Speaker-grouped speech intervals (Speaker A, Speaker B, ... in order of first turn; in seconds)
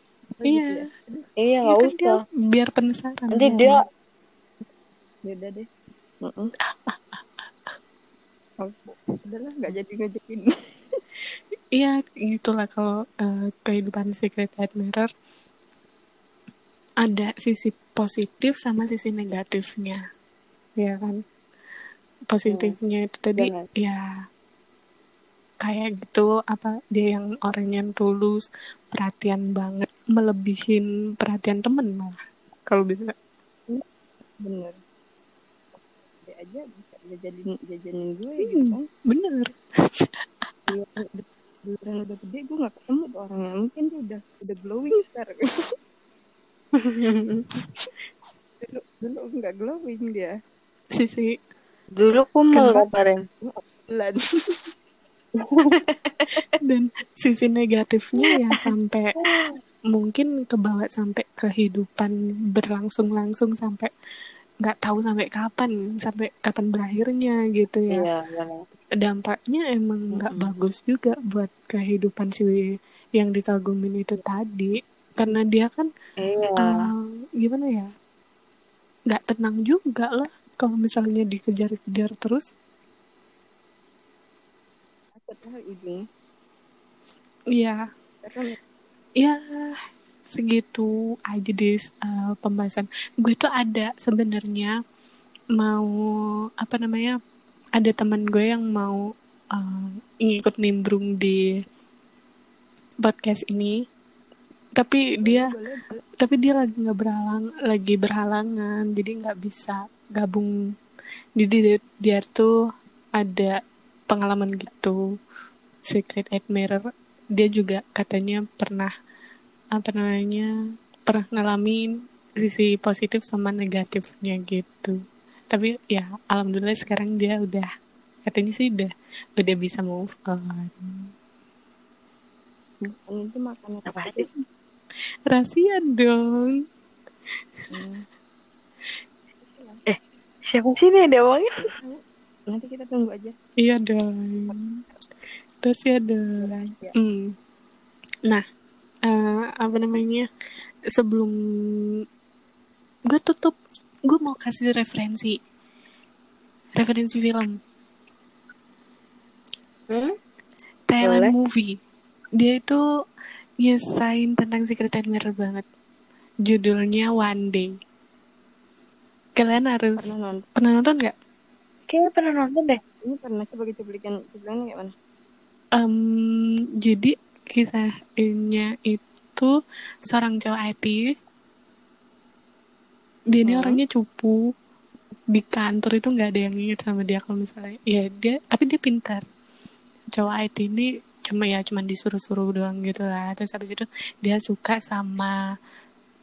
Speaker A: 0.4-1.3, 5.2-5.7, 6.2-6.5, 8.6-11.0, 34.4-34.8, 36.2-38.9, 41.7-45.8, 48.6-50.3, 53.4-54.6, 85.2-86.0, 88.2-88.6, 105.2-106.0, 132.8-134.3, 137.7-138.1, 139.3-139.9, 141.8-143.3, 144.5-144.9, 146.4-146.9, 170.0-170.5, 173.1-174.9, 183.5-183.8
Speaker B: 0.5-0.8, 1.6-3.8, 6.7-7.8, 11.8-15.1, 17.0-20.0, 20.8-21.2, 22.3-24.0, 25.6-33.1, 38.4-40.7, 51.0-51.3, 52.5-52.9, 56.6-59.1, 59.9-63.9, 64.6-68.1, 69.0-75.9, 76.6-77.9, 79.1-82.4, 87.5-87.8, 89.2-94.7, 95.6-95.9, 96.6-97.1, 97.8-99.0, 99.5-101.4, 103.0-103.8, 104.8-105.5, 106.2-110.5, 111.4-112.5, 113.2-113.6, 114.1-115.0, 115.9-118.9, 119.8-120.5, 121.1-121.9, 122.4-125.0, 125.5-127.7, 128.3-131.1, 135.3-136.6, 143.6-144.6, 145.6-147.3, 149.1-150.3, 150.9-151.8, 153.1-153.6, 154.1-155.4, 156.8-157.6, 160.9-161.8, 162.4-162.8, 163.6-165.6, 166.5-167.7, 169.4-171.1, 175.8-179.5, 180.1-181.0, 183.3-184.4, 185.3-189.2, 190.1-195.3
Speaker C: 1.4-2.2, 3.3-3.8, 22.5-22.8, 23.4-23.7, 40.7-41.1, 46.8-47.5, 52.0-53.3, 55.4-56.6, 58.3-58.6, 59.2-59.6, 67.9-68.6, 76.2-76.9, 133.9-134.3, 140.5-141.7, 159.9-160.2, 161.0-161.3, 171.9-172.8